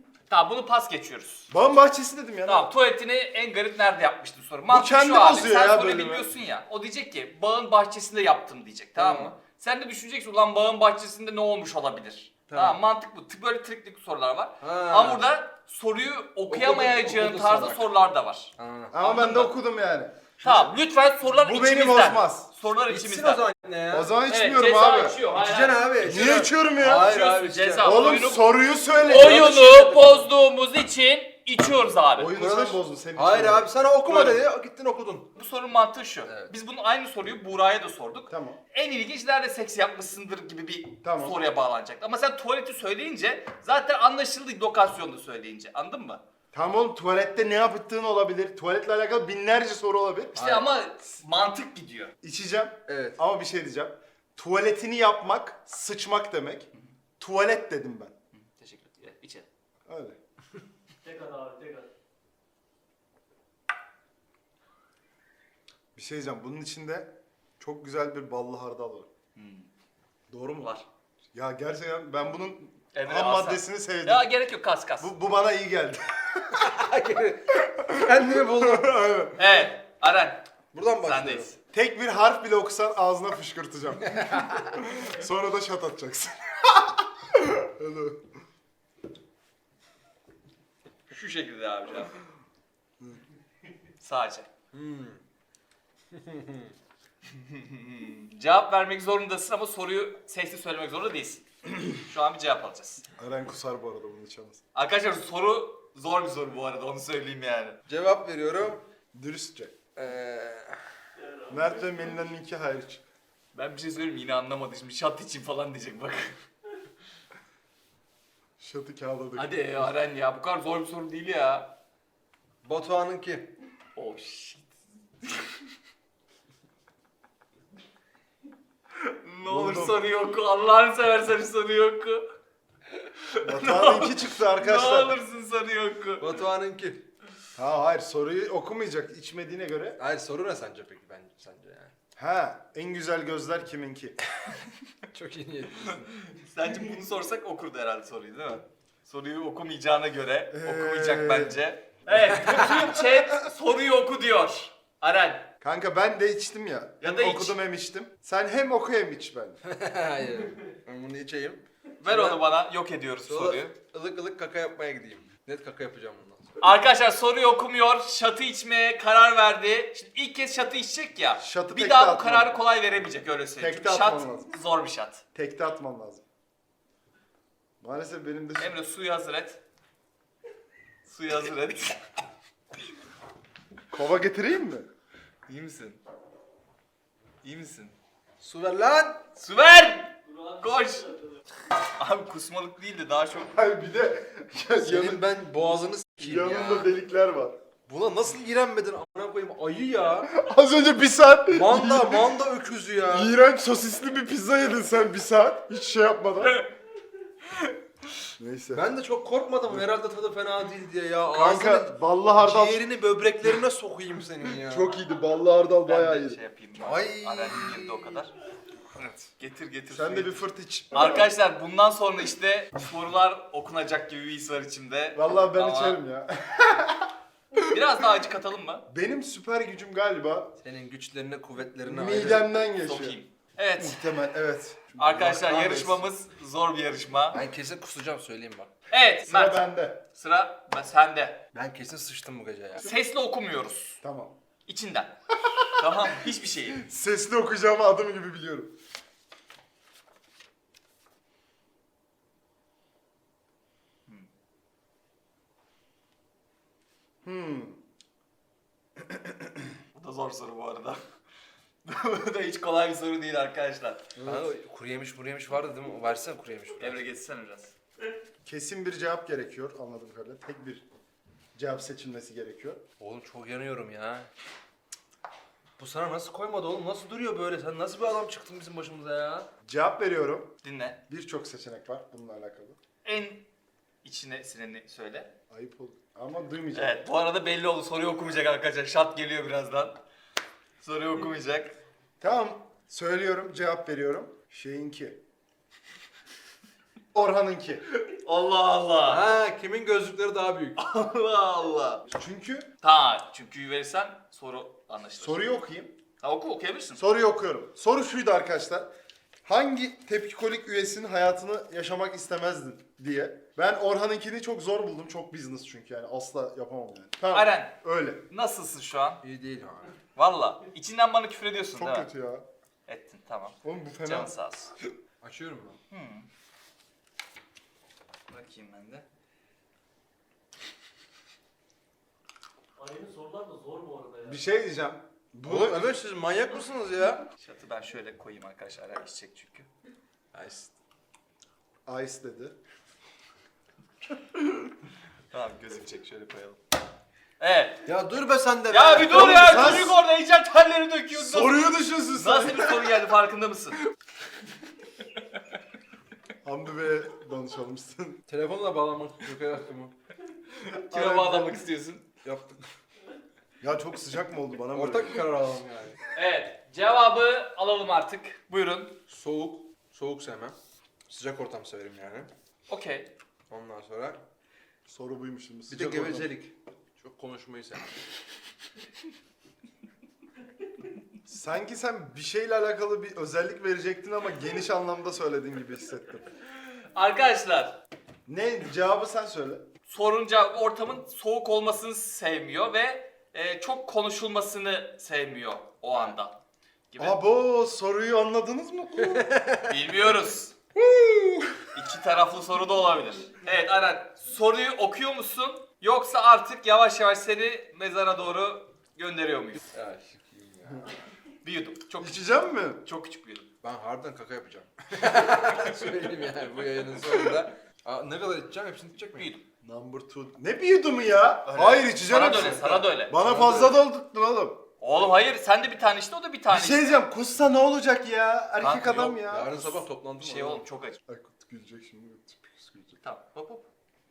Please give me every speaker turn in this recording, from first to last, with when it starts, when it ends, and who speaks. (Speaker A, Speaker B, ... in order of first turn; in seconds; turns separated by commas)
Speaker A: 0.3-1.5, Speaker B: 1.5-2.7, Speaker A: 2.5-19.5, Speaker B: 4.7-6.3, Speaker C: 8.9-9.3, Speaker C: 12.5-12.8, Speaker C: 14.6-15.2, Speaker C: 16.5-17.9, Speaker C: 18.6-19.0, Speaker B: 18.9-20.3, Speaker A: 20.4-23.5, Speaker C: 20.4-20.7, Speaker B: 21.2-22.5, Speaker C: 22.9-24.1, Speaker B: 23.9-25.2, Speaker A: 24.3-32.3, Speaker C: 25.3-28.1, Speaker B: 26.0-27.1, Speaker B: 27.8-29.8, Speaker C: 29.1-30.3, Speaker B: 32.1-33.7, Speaker C: 32.4-35.3, Speaker A: 34.1-34.4, Speaker A: 35.3-46.2, Speaker C: 36.2-36.5, Speaker B: 38.3-38.6, Speaker B: 41.0-41.4, Speaker B: 46.5-50.4, Speaker A: 50.3-52.1, Speaker C: 50.4-50.7, Speaker B: 52.2-58.1, Speaker C: 52.9-53.2, Speaker A: 58.6-59.5, Speaker B: 59.9-60.1, Speaker D: 61.0-61.9, Speaker B: 65.9-69.1, Speaker A: 69.3-69.7, Speaker B: 70.3-70.7, Speaker A: 70.6-70.8, Speaker B: 71.3-74.3, Speaker A: 72.9-75.1, Speaker B: 75.0-76.7, Speaker C: 76.6-78.9, Speaker B: 77.6-79.5, Speaker A: 79.4-80.5, Speaker C: 80.7-81.5, Speaker A: 81.0-81.5, Speaker B: 81.7-88.3, Speaker A: 91.1-92.1, Speaker A: 94.0-94.5, Speaker C: 94.7-95.2, Speaker C: 96.1-96.7, Speaker A: 97.5-103.0, Speaker B: 103.2-104.6, Speaker A: 104.7-107.8, Speaker C: 107.9-108.8, Speaker B: 109.1-109.8, Speaker C: 110.0-110.8, Speaker B: 111.5-113.0, Speaker A: 113.5-116.4, Speaker B: 118.6-119.6, Speaker A: 119.4-121.7, Speaker C: 122.6-123.5, Speaker A: 124.0-125.4, Speaker A: 129.0-132.2, Speaker B: 129.4-130.0, Speaker A: 133.0-136.3, Speaker B: 133.4-135.2, Speaker C: 136.2-137.1, Speaker B: 137.5-140.0, Speaker C: 140.0-141.9, Speaker B: 142.2-144.2, Speaker C: 145.1-146.2, Speaker A: 146.3-155.5, Speaker B: 150.5-151.6, Speaker B: 155.6-159.6, Speaker A: 157.0-157.6, Speaker C: 159.6-162.4, Speaker A: 162.0-163.7, Speaker C: 163.3-166.6, Speaker A: 166.6-175.2, Speaker B: 171.4-172.5, Speaker B: 173.6-174.5, Speaker B: 175.3-176.2, Speaker B: 177.8-178.8, Speaker A: 178.6-179.6, Speaker A: 181.1-182.0, Speaker B: 183.9-184.9, Speaker A: 185.5-186.0, Speaker A: 187.4-187.9, Speaker C: 188.4-189.2, Speaker A: 189.3-191.1, Speaker D: 190.3-191.2, Speaker A: 191.9-193.5, Speaker B: 193.4-195.2, Speaker C: 194.8-196.9, Speaker B: 196.2-197.6, Speaker C: 197.9-200.3, Speaker B: 200.3-202.4, Speaker C: 201.5-203.3, Speaker B: 203.1-206.7, Speaker B: 208.4-208.9, Speaker C: 208.7-214.9, Speaker B: 211.3-212.8, Speaker B: 214.4-216.4, Speaker A: 215.8-218.3, Speaker C: 216.8-218.1, Speaker A: 219.4-226.0, Speaker B: 219.9-221.3, Speaker B: 225.1-227.6, Speaker A: 227.6-228.9, Speaker B: 228.9-230.6, Speaker C: 230.6-232.5, Speaker B: 231.8-233.2, Speaker A: 232.8-234.0, Speaker B: 233.8-236.0, Speaker A: 235.0-237.4, Speaker C: 237.3-238.7, Speaker A: 238.9-241.4, Speaker B: 239.2-240.0, Speaker C: 241.5-242.9, Speaker A: 242.8-244.0, Speaker B: 244.0-244.4, Speaker A: 244.7-245.1, Speaker B: 245.5-245.8, Speaker A: 245.6-246.8, Speaker B: 246.7-248.7, Speaker B: 257.2-257.8, Speaker B: 259.0-259.7, Speaker A: 259.9-261.0, Speaker A: 261.8-264.1, Speaker B: 264.1-264.5, Speaker C: 264.2-267.0, Speaker A: 266.8-267.7, Speaker B: 268.4-270.8, Speaker B: 271.5-272.8, Speaker C: 273.0-274.3, Speaker C: 275.8-279.5, Speaker B: 279.6-280.6, Speaker A: 280.6-281.0, Speaker B: 281.1-282.8, Speaker A: 283.0-283.4, Speaker A: 284.0-285.3, Speaker B: 285.5-287.0, Speaker A: 286.7-290.0, Speaker A: 290.8-291.8, Speaker B: 292.2-295.2, Speaker B: 297.1-297.8, Speaker A: 297.9-299.3, Speaker C: 299.1-300.8, Speaker A: 300.8-302.1, Speaker B: 302.1-302.7, Speaker A: 302.8-305.5, Speaker B: 305.2-305.9, Speaker A: 306.2-307.0, Speaker B: 306.9-308.9, Speaker B: 309.4-318.2, Speaker A: 317.3-319.2, Speaker C: 319.2-319.9, Speaker A: 320.1-322.1, Speaker B: 321.8-322.4, Speaker A: 322.9-324.7, Speaker B: 323.6-324.3, Speaker C: 325.2-325.8, Speaker A: 325.9-326.3, Speaker A: 328.3-329.0, Speaker D: 332.8-334.4, Speaker B: 334.2-335.9, Speaker C: 335.4-337.3, Speaker A: 337.4-339.7, Speaker C: 340.3-340.7, Speaker B: 341.9-342.6, Speaker A: 345.3-346.6, Speaker A: 347.4-347.8, Speaker C: 347.9-349.9, Speaker A: 348.7-353.8, Speaker B: 349.1-350.0, Speaker B: 351.1-352.9, Speaker B: 356.4-358.2, Speaker C: 358.3-359.9, Speaker A: 360.6-362.1, Speaker B: 360.9-361.5, Speaker C: 362.2-362.6, Speaker B: 363.6-365.2, Speaker C: 364.7-366.0, Speaker A: 366.1-369.0, Speaker C: 369.1-370.6, Speaker C: 371.1-372.3, Speaker A: 372.7-373.1, Speaker C: 373.5-374.2, Speaker B: 374.9-376.3, Speaker C: 375.7-377.9, Speaker B: 381.3-386.3, Speaker A: 386.9-387.8, Speaker B: 388.3-389.7, Speaker A: 389.9-396.4, Speaker A: 396.9-397.2, Speaker B: 397.0-399.3, Speaker C: 399.1-399.6, Speaker A: 399.7-400.5, Speaker B: 400.8-401.6, Speaker A: 401.7-409.6, Speaker C: 409.7-410.9, Speaker A: 411.4-413.5, Speaker B: 412.0-412.8, Speaker C: 413.6-419.3, Speaker A: 419.2-419.4, Speaker B: 419.6-424.6, Speaker A: 421.4-423.1, Speaker C: 422.2-423.8, Speaker A: 424.8-427.0, Speaker B: 426.5-429.9, Speaker A: 428.6-429.2, Speaker C: 429.1-430.6, Speaker A: 430.2-431.0, Speaker B: 431.1-433.0, Speaker A: 433.0-433.7